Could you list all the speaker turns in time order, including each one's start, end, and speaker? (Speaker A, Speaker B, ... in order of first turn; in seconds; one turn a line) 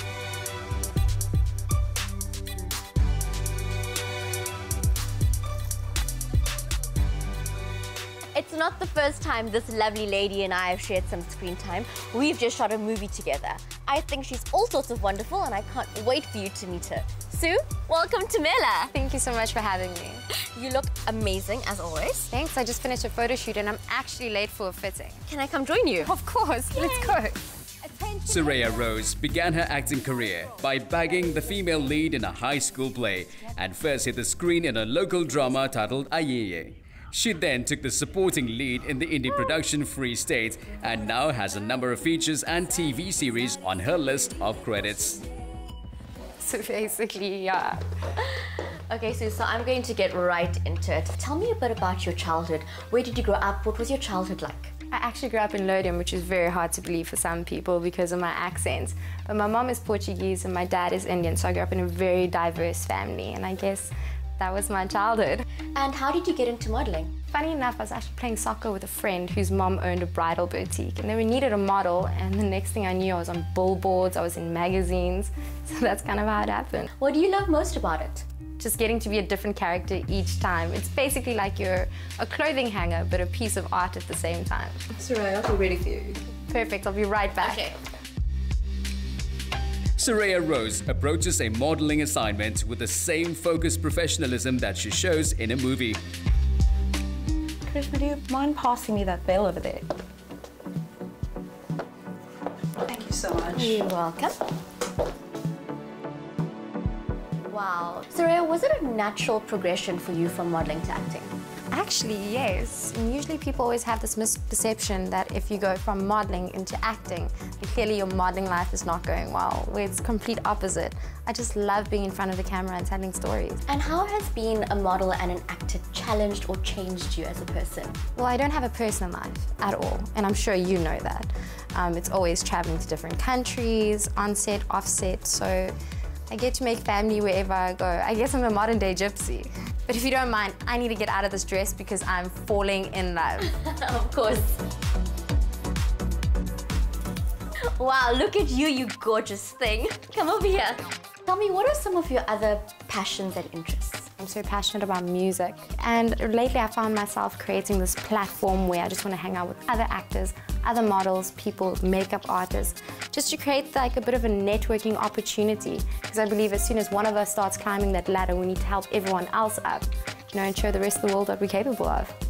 Speaker A: 8.3-18.9
Speaker B: 18.9-20.2
Speaker A: 20.4-22.3
Speaker B: 22.3-25.2
Speaker A: 25.3-26.1
Speaker B: 26.0-27.4
Speaker A: 26.7-27.1
Speaker C: 28.2-45.2
Speaker B: 46.4-47.8
Speaker A: 48.2-54.7
Speaker B: 54.9-65.5
Speaker A: 65.7-67.1
Speaker B: 67.3-76.9
Speaker A: 77.0-78.3
Speaker B: 78.6-84.9
Speaker D: 85.0-86.2
Speaker B: 86.5-87.8
Speaker A: 87.4-87.7
Speaker C: 90.0-96.0
Speaker A: 97.7-99.9
Speaker D: 102.9-103.6
Speaker A: 103.5-104.3
Speaker A: 107.5-111.3
Speaker B: 111.7-123.6
Speaker A: 123.7-128.0
Speaker B: 128.2-135.7
Speaker B: 136.3-143.5
Speaker A: 143.4-144.6
Speaker A: 147.8-154.1
Speaker B: 154.2-172.1